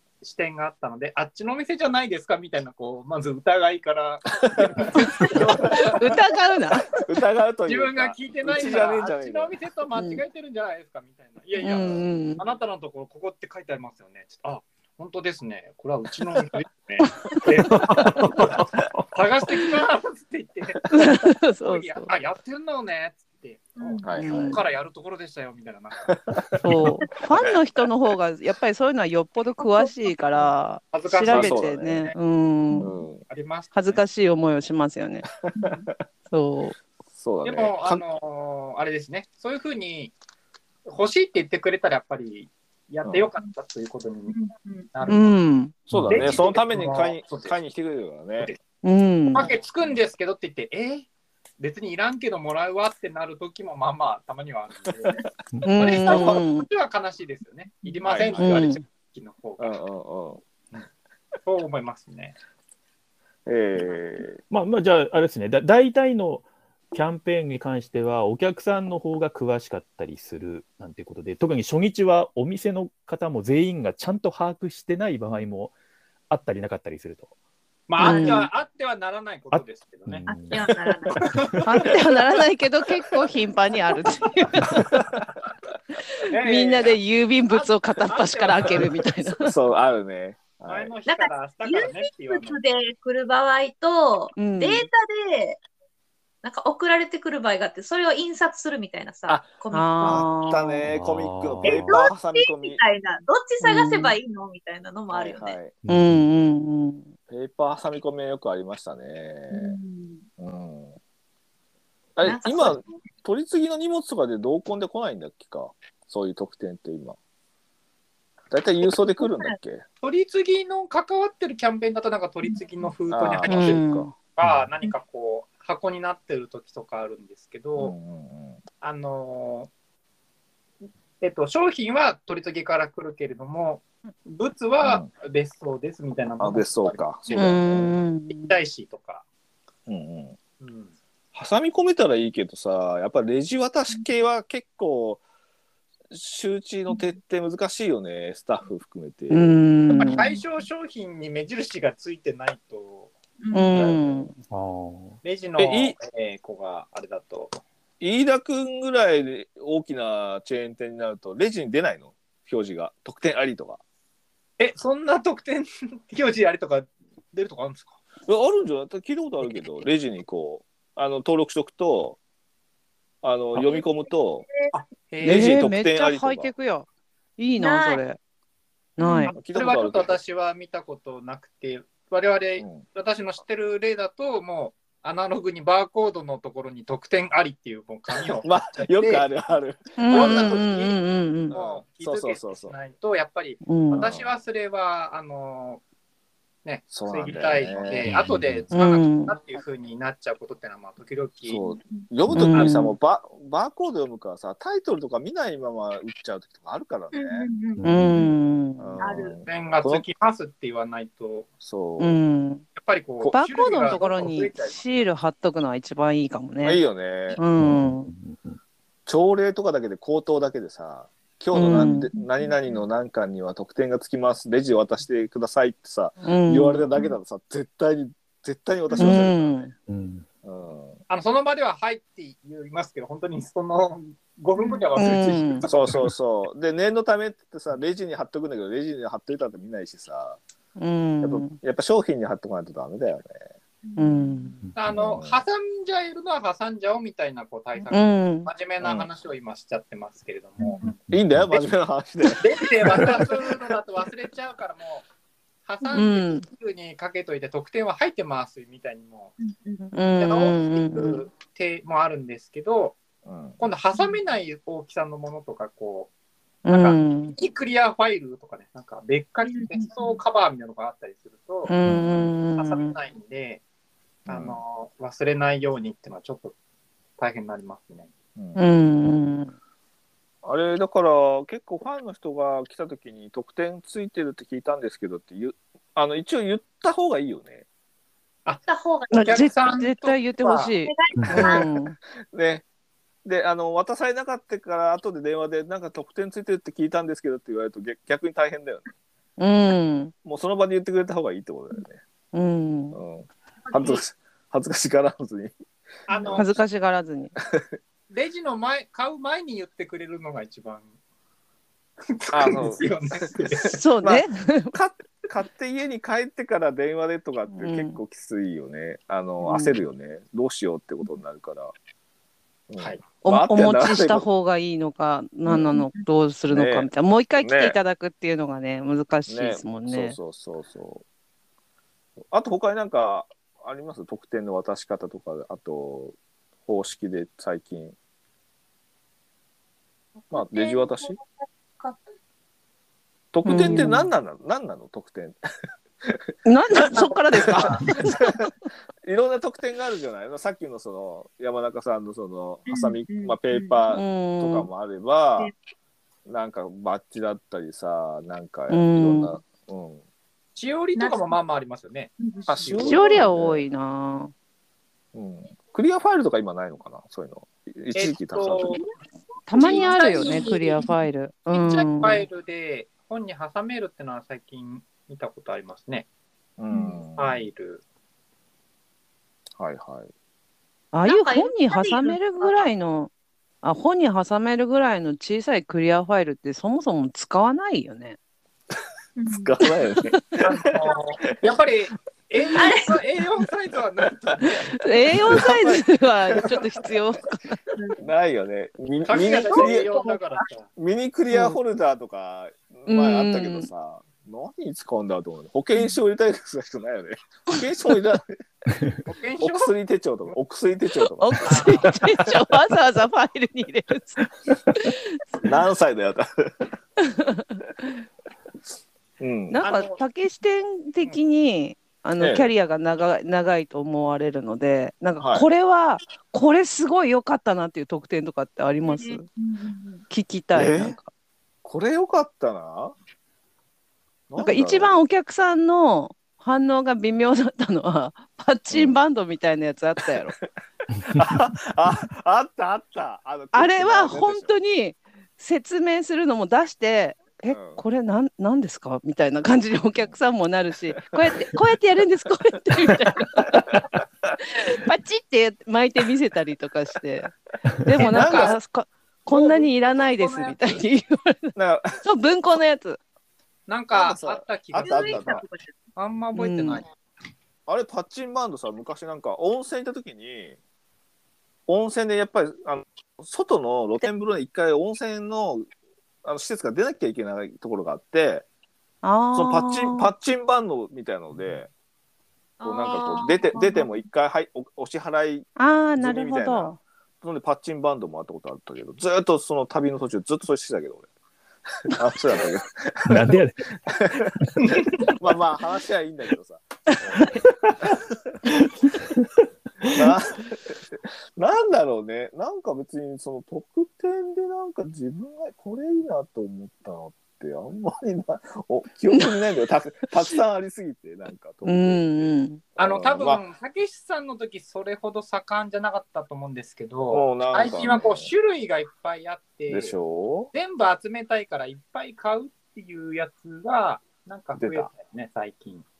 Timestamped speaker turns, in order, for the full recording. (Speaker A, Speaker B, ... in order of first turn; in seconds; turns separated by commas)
Speaker A: 0.2-6.2, Speaker B: 4.5-5.9, Speaker C: 5.8-6.9, Speaker B: 7.0-9.5, Speaker A: 7.7-26.2, Speaker C: 9.9-10.2, Speaker C: 11.6-12.4, Speaker B: 11.7-12.1, Speaker C: 17.2-17.7, Speaker D: 17.9-18.3, Speaker C: 20.9-22.1, Speaker E: 23.8-24.2, Speaker B: 24.0-24.6, Speaker C: 24.1-24.6, Speaker B: 26.1-26.6, Speaker C: 26.6-32.9, Speaker A: 30.9-32.1, Speaker B: 31.3-32.1, Speaker B: 32.8-33.2, Speaker A: 33.2-34.0, Speaker C: 33.7-35.2, Speaker B: 35.4-35.9, Speaker E: 35.5-35.9, Speaker C: 36.3-36.8, Speaker B: 37.1-37.7, Speaker A: 37.4-40.1, Speaker A: 40.9-45.3, Speaker E: 44.3-44.9, Speaker C: 45.0-45.8, Speaker D: 45.9-46.3, Speaker B: 45.9-48.5, Speaker A: 46.1-47.5, Speaker C: 48.8-49.5, Speaker A: 49.3-51.1, Speaker A: 51.6-55.2, Speaker D: 55.5-56.0, Speaker C: 55.6-56.7, Speaker A: 55.8-59.7, Speaker B: 56.1-56.4, Speaker B: 58.0-58.6, Speaker C: 58.4-58.8, Speaker B: 59.6-60.4, Speaker A: 61.4-62.3, Speaker B: 63.5-64.4, Speaker D: 64.5-75.7, Speaker D: 76.3-77.3, Speaker A: 77.9-80.3, Speaker C: 78.0-78.5, Speaker E: 78.0-78.5, Speaker D: 79.5-81.6, Speaker E: 80.2-81.4, Speaker A: 81.1-81.9, Speaker C: 81.6-84.8, Speaker C: 86.2-89.5, Speaker A: 86.2-89.1, Speaker B: 89.4-90.9, Speaker A: 90.6-92.6, Speaker E: 91.1-95.6, Speaker C: 94.3-94.9, Speaker E: 96.4-100.7, Speaker C: 99.7-100.8, Speaker B: 100.0-102.8, Speaker D: 100.8-101.9, Speaker E: 101.6-105.6, Speaker C: 103.6-104.2, Speaker B: 105.1-105.8, Speaker D: 105.8-106.3, Speaker C: 105.9-107.1, Speaker B: 107.3-109.8, Speaker E: 109.5-110.2, Speaker B: 110.4-111.0, Speaker B: 112.2-117.2, Speaker E: 112.2-112.9, Speaker B: 118.5-119.8, Speaker E: 119.2-119.5, Speaker A: 120.0-127.9, Speaker B: 123.1-124.1, Speaker C: 123.4-124.1, Speaker D: 124.4-124.7, Speaker B: 127.8-128.6, Speaker A: 128.8-129.7, Speaker A: 131.2-139.2, Speaker B: 134.8-135.1, Speaker B: 136.4-137.9, Speaker C: 137.3-138.5, Speaker B: 139.9-140.4, Speaker A: 140.6-140.9, Speaker B: 141.3-145.2, Speaker B: 146.1-149.6, Speaker C: 149.3-150.3, Speaker A: 149.9-153.1, Speaker E: 149.9-150.4, Speaker E: 153.4-154.0, Speaker C: 153.5-154.3, Speaker A: 153.7-154.2, Speaker D: 154.5-155.2, Speaker A: 155.2-157.6, Speaker B: 155.6-155.9, Speaker B: 158.0-163.8, Speaker A: 164.6-168.0, Speaker B: 168.2-172.2, Speaker B: 173.2-174.4, Speaker E: 173.6-173.9, Speaker A: 174.7-175.6, Speaker B: 175.2-176.5, Speaker C: 175.2-176.9, Speaker C: 177.4-178.2, Speaker E: 177.6-178.0, Speaker C: 179.0-179.3, Speaker E: 179.0-179.3, Speaker A: 179.3-189.2, Speaker B: 179.3-180.2, Speaker B: 188.4-190.9, Speaker C: 190.0-191.5, Speaker A: 190.1-191.0, Speaker B: 191.5-192.7, Speaker A: 191.5-195.8, Speaker C: 193.7-194.1, Speaker B: 193.9-194.3, Speaker A: 196.6-201.6, Speaker B: 196.9-198.1, Speaker D: 198.0-198.7, Speaker C: 198.7-199.3, Speaker B: 201.5-207.5, Speaker C: 202.3-202.9, Speaker A: 202.5-202.8, Speaker E: 207.1-208.3, Speaker D: 207.8-208.3, Speaker C: 207.8-209.0, Speaker B: 208.8-210.1, Speaker E: 209.0-209.4, Speaker A: 209.4-211.5, Speaker B: 211.6-212.2, Speaker C: 212.0-212.6, Speaker A: 212.7-215.0, Speaker C: 213.3-216.8, Speaker B: 216.6-217.4, Speaker C: 217.4-218.1, Speaker D: 217.6-218.6, Speaker B: 219.1-229.7, Speaker C: 221.5-222.1, Speaker E: 221.9-222.8, Speaker C: 226.2-226.8, Speaker E: 228.9-229.2, Speaker C: 229.0-229.7, Speaker D: 229.9-230.2, Speaker B: 230.4-231.0, Speaker A: 231.1-236.0, Speaker E: 234.6-234.9, Speaker C: 235.0-235.6, Speaker B: 235.7-240.4, Speaker C: 240.8-241.6, Speaker B: 241.2-243.4, Speaker E: 243.8-244.5, Speaker C: 244.0-244.6, Speaker A: 244.8-251.0, Speaker B: 244.9-245.4, Speaker C: 247.9-248.5, Speaker B: 248.8-249.1, Speaker E: 250.6-250.9, Speaker D: 251.1-251.5, Speaker B: 251.1-253.7, Speaker A: 252.4-255.1, Speaker A: 255.7-259.4, Speaker E: 255.8-256.1, Speaker C: 255.9-256.4, Speaker E: 259.4-259.8, Speaker C: 259.9-261.3, Speaker A: 260.1-263.0, Speaker B: 263.2-263.6, Speaker A: 263.6-266.1, Speaker A: 266.6-271.7, Speaker C: 266.6-267.4, Speaker E: 269.4-270.2, Speaker C: 271.7-272.9, Speaker D: 271.9-272.2, Speaker A: 272.5-273.6, Speaker A: 274.2-276.5, Speaker B: 274.3-274.6, Speaker A: 277.2-278.1, Speaker B: 278.4-278.6, Speaker C: 278.6-279.5, Speaker B: 280.4-287.6, Speaker A: 288.4-290.7, Speaker C: 289.1-291.9, Speaker E: 290.8-291.7, Speaker D: 291.1-291.5, Speaker B: 292.3-292.6, Speaker B: 293.2-298.9, Speaker C: 299.4-300.1, Speaker B: 300.2-302.0, Speaker C: 302.3-303.0, Speaker B: 302.9-305.5, Speaker E: 303.7-304.0, Speaker A: 306.1-306.6, Speaker E: 306.1-306.4, Speaker B: 306.1-306.4, Speaker C: 306.4-307.4, Speaker A: 308.1-310.9, Speaker A: 312.1-313.8, Speaker B: 312.3-321.7, Speaker C: 313.7-314.8, Speaker C: 317.5-318.0, Speaker C: 319.4-319.7, Speaker B: 322.7-324.3, Speaker C: 323.2-330.2, Speaker B: 325.4-325.8, Speaker B: 326.5-327.8, Speaker B: 329.3-331.0, Speaker B: 332.3-337.9, Speaker E: 340.2-342.0, Speaker B: 340.3-341.2, Speaker B: 343.3-345.4, Speaker C: 343.4-344.1, Speaker C: 346.4-348.3, Speaker B: 346.7-348.5, Speaker A: 347.3-347.8, Speaker B: 349.0-355.5, Speaker E: 352.7-353.8, Speaker C: 353.9-354.7, Speaker B: 356.2-360.0, Speaker C: 358.7-359.4, Speaker A: 360.6-363.2, Speaker E: 360.9-361.4, Speaker E: 362.2-362.9, Speaker B: 362.5-363.6, Speaker C: 362.8-364.3, Speaker B: 365.1-368.8, Speaker A: 367.9-368.8, Speaker C: 369.5-372.2, Speaker E: 369.5-371.0, Speaker A: 369.5-370.8, Speaker A: 371.5-376.1, Speaker B: 376.6-377.4, Speaker E: 376.7-377.0, Speaker A: 377.1-377.8, Speaker B: 379.6-380.1, Speaker C: 380.9-383.1, Speaker E: 381.0-382.6, Speaker C: 383.6-388.2, Speaker E: 389.2-389.5, Speaker B: 389.2-391.5, Speaker A: 390.4-395.2, Speaker E: 392.6-392.9, Speaker C: 394.8-397.6, Speaker B: 395.2-396.9, Speaker E: 397.7-398.0, Speaker B: 398.0-399.9, Speaker A: 399.1-400.7, Speaker E: 399.5-400.4, Speaker B: 400.8-408.4, Speaker C: 402.9-403.7, Speaker A: 409.1-409.7, Speaker B: 409.4-412.3, Speaker C: 411.2-415.4, Speaker A: 411.4-411.9, Speaker B: 415.4-416.7, Speaker C: 417.1-417.4, Speaker B: 419.2-419.6, Speaker C: 419.5-429.2, Speaker A: 419.6-420.0, Speaker B: 422.2-422.5, Speaker B: 425.2-425.5, Speaker E: 428.8-430.0, Speaker C: 430.1-431.1, Speaker B: 430.5-431.0, Speaker B: 431.6-432.9, Speaker B: 434.3-435.0, Speaker C: 434.4-440.4, Speaker B: 438.7-439.0, Speaker B: 441.1-444.5, Speaker C: 443.5-453.8, Speaker B: 447.5-447.8, Speaker B: 452.8-454.0, Speaker C: 454.5-463.0, Speaker B: 457.9-458.6, Speaker A: 458.0-458.5, Speaker B: 459.3-459.7, Speaker E: 460.2-460.6, Speaker B: 461.6-462.0, Speaker A: 463.7-465.4, Speaker B: 463.9-465.4, Speaker E: 464.8-465.7, Speaker A: 465.9-466.9, Speaker C: 466.4-466.8, Speaker B: 467.7-470.6, Speaker B: 471.7-475.7, Speaker B: 476.2-478.4, Speaker C: 479.0-480.1, Speaker B: 479.3-481.7, Speaker E: 482.6-483.9, Speaker B: 482.6-491.1, Speaker C: 485.6-486.8, Speaker B: 491.8-493.4, Speaker D: 493.1-493.8, Speaker B: 493.9-494.5, Speaker D: 494.4-495.0, Speaker A: 494.6-494.9, Speaker B: 495.0-498.4, Speaker D: 497.3-497.8, Speaker D: 498.5-500.0, Speaker B: 499.8-513.4, Speaker C: 511.6-512.6, Speaker A: 512.8-520.0, Speaker B: 517.1-518.3, Speaker B: 519.7-520.5, Speaker A: 520.5-525.9, Speaker B: 524.6-524.9